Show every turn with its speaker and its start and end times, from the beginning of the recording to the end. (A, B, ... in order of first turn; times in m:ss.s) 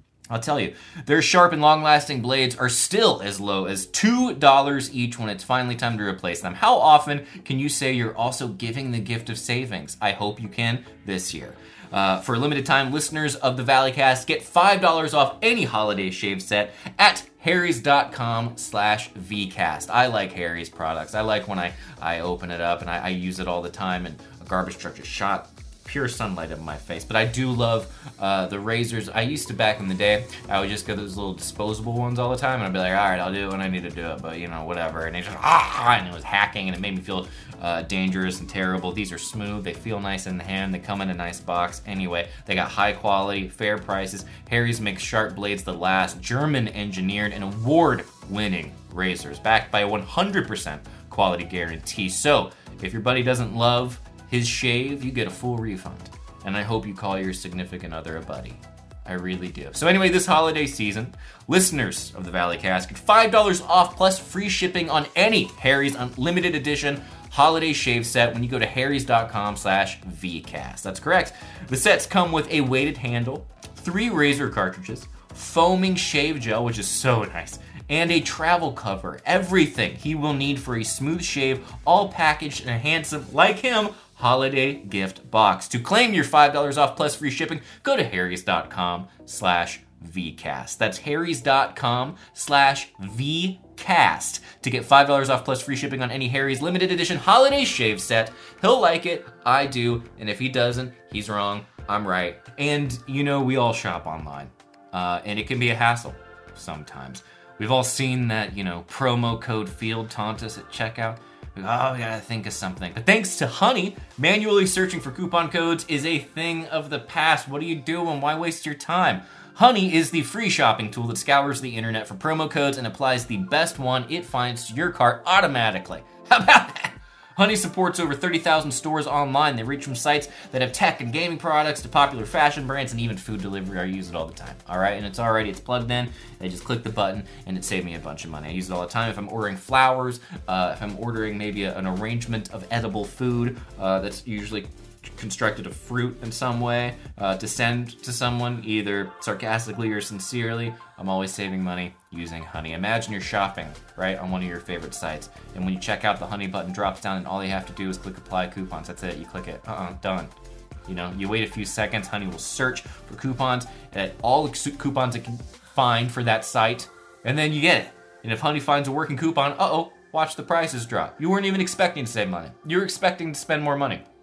0:00.3-2:40.3 A
2:40.9-2:54.0 A